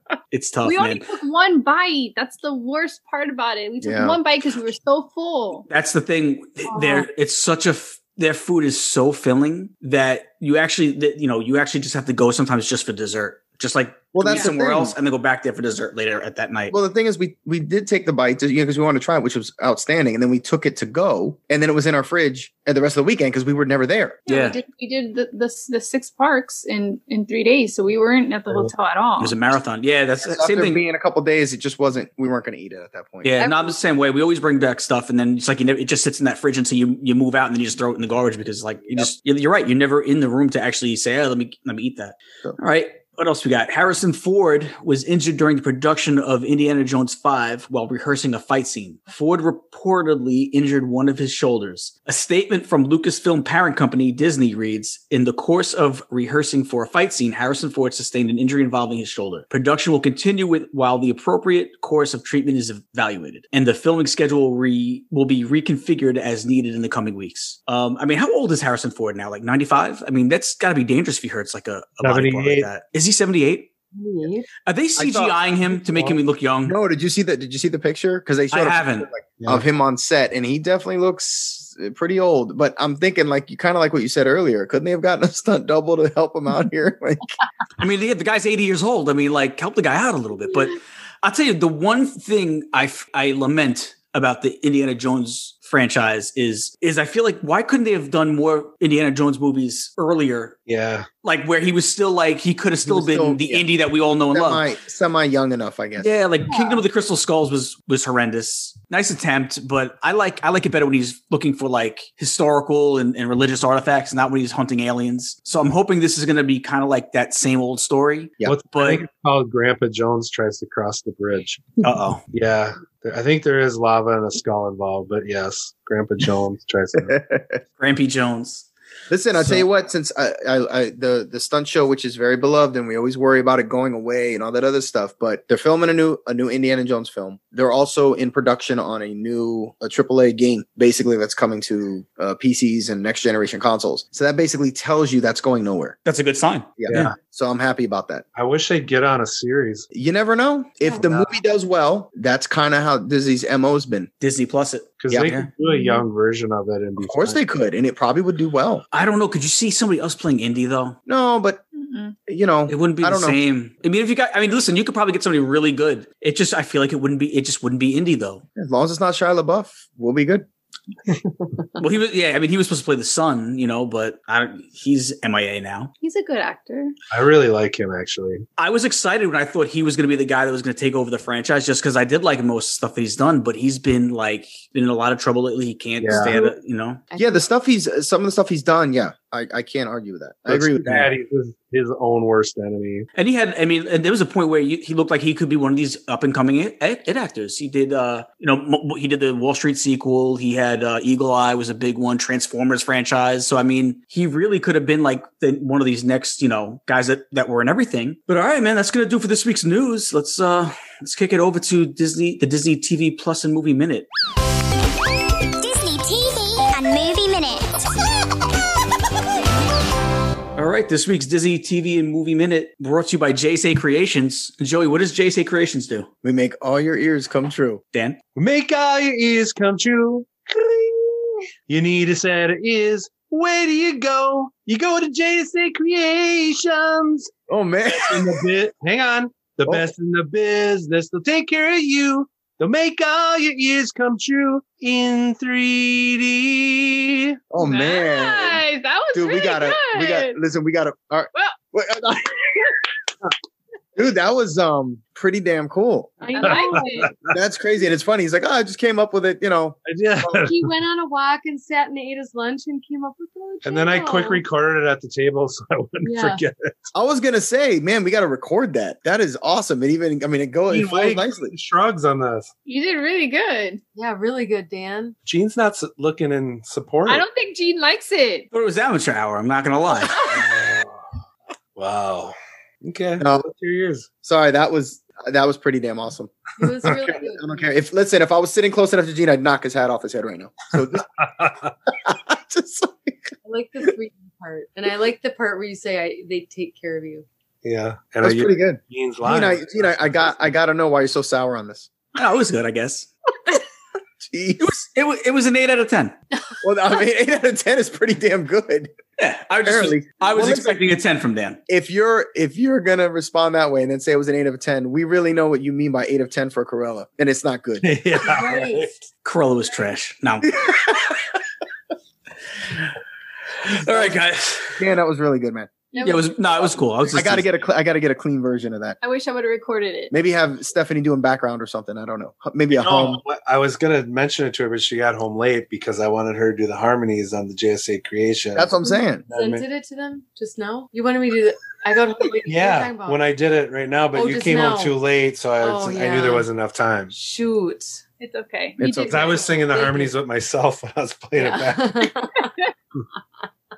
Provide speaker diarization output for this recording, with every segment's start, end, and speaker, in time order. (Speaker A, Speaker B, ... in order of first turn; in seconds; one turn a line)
Speaker A: 0.3-1.1
Speaker B: 0.6-5.7
Speaker C: 3.8-4.2
Speaker A: 5.7-16.8
Speaker D: 6.7-7.1
Speaker C: 14.1-15.0
Speaker C: 16.7-24.2
Speaker B: 24.3-29.4
Speaker A: 24.3-24.6
Speaker A: 29.2-30.8
Speaker C: 30.2-33.4
Speaker A: 33.2-73.7
Speaker D: 33.4-33.7
Speaker E: 72.0-72.7
Speaker D: 73.9-74.5
Speaker A: 74.6-76.8
Speaker C: 75.0-75.4
Speaker E: 75.9-76.1
Speaker C: 76.7-87.3
Speaker A: 78.5-79.1
Speaker A: 87.8-100.6
Speaker E: 100.7-101.1
Speaker A: 101.2-104.7
Speaker C: 102.8-103.7
Speaker C: 104.3-106.2
Speaker A: 106.0-119.0
Speaker D: 106.5-106.8
Speaker E: 118.5-121.7
Speaker A: 121.8-122.2
Speaker E: 122.3-127.2
Speaker C: 127.0-127.6
Speaker A: 127.8-128.7
Speaker C: 129.1-146.0
Speaker A: 146.1-147.1
Speaker C: 146.8-148.2
Speaker E: 146.9-147.1
Speaker E: 148.3-149.9
Speaker C: 149.9-154.1
Speaker E: 151.0-151.3
Speaker A: 154.2-155.5
Speaker E: 155.0-157.4
Speaker D: 155.7-156.0
Speaker C: 157.0-158.8
Speaker A: 158.9-161.0
Speaker C: 161.1-161.6
Speaker B: 161.7-162.2
Speaker C: 162.3-163.4
Speaker A: 162.7-168.4
Speaker C: 168.6-170.5
Speaker A: 171.8-175.9
Speaker B: 176.0-176.9
Speaker E: 177.1-178.4
Speaker A: 178.6-187.0
Speaker E: 186.0-186.3
Speaker D: 187.1-187.5
Speaker C: 187.2-191.1
Speaker E: 190.5-193.1
Speaker A: 193.2-214.1
Speaker F: 215.6-217.9
Speaker A: 220.6-226.1
Speaker C: 226.2-227.8
Speaker A: 227.9-228.2
Speaker E: 228.4-230.5
Speaker E: 231.7-237.3
Speaker C: 237.5-238.4
Speaker E: 237.9-247.4
Speaker C: 247.5-252.7
Speaker B: 247.6-250.4
Speaker C: 254.0-256.2
Speaker D: 256.2-257.1
Speaker B: 256.3-257.1
Speaker E: 256.4-257.3
Speaker C: 257.3-259.8
Speaker E: 259.9-260.7
Speaker D: 260.3-264.4
Speaker E: 263.6-266.9
Speaker D: 266.0-266.4
Speaker C: 266.9-271.5
Speaker E: 270.7-272.5
Speaker B: 272.7-273.8
Speaker D: 273.9-275.1
Speaker E: 275.2-277.2
Speaker B: 277.1-278.5
Speaker A: 278.5-280.2
Speaker E: 280.3-281.0
Speaker E: 281.8-284.1
Speaker C: 283.2-283.5
Speaker C: 284.2-291.1
Speaker D: 286.6-287.7
Speaker E: 291.2-291.7
Speaker C: 292.0-293.3
Speaker D: 293.4-297.3
Speaker E: 297.6-300.4
Speaker C: 298.2-301.9
Speaker A: 302.1-303.1
Speaker C: 304.2-304.7
Speaker A: 304.6-306.2
Speaker C: 306.6-308.9
Speaker A: 309.2-311.6
Speaker C: 309.6-310.9
Speaker C: 311.7-317.9
Speaker E: 317.8-318.9
Speaker D: 318.2-319.0
Speaker A: 319.2-320.7
Speaker C: 320.6-321.1
Speaker A: 323.7-324.8
Speaker C: 323.7-324.2
Speaker C: 324.8-325.7
Speaker D: 325.9-326.3
Speaker A: 326.0-327.5
Speaker C: 327.1-329.0
Speaker B: 329.0-330.1
Speaker C: 330.1-333.2
Speaker E: 332.8-338.8
Speaker C: 338.6-339.3
Speaker D: 338.9-343.2
Speaker E: 339.3-339.6
Speaker E: 342.5-347.1
Speaker D: 344.1-345.0
Speaker D: 345.6-346.5
Speaker D: 347.1-348.0
Speaker B: 348.2-349.9
Speaker C: 348.8-349.4
Speaker E: 349.1-352.1
Speaker D: 349.7-350.1
Speaker D: 351.4-352.5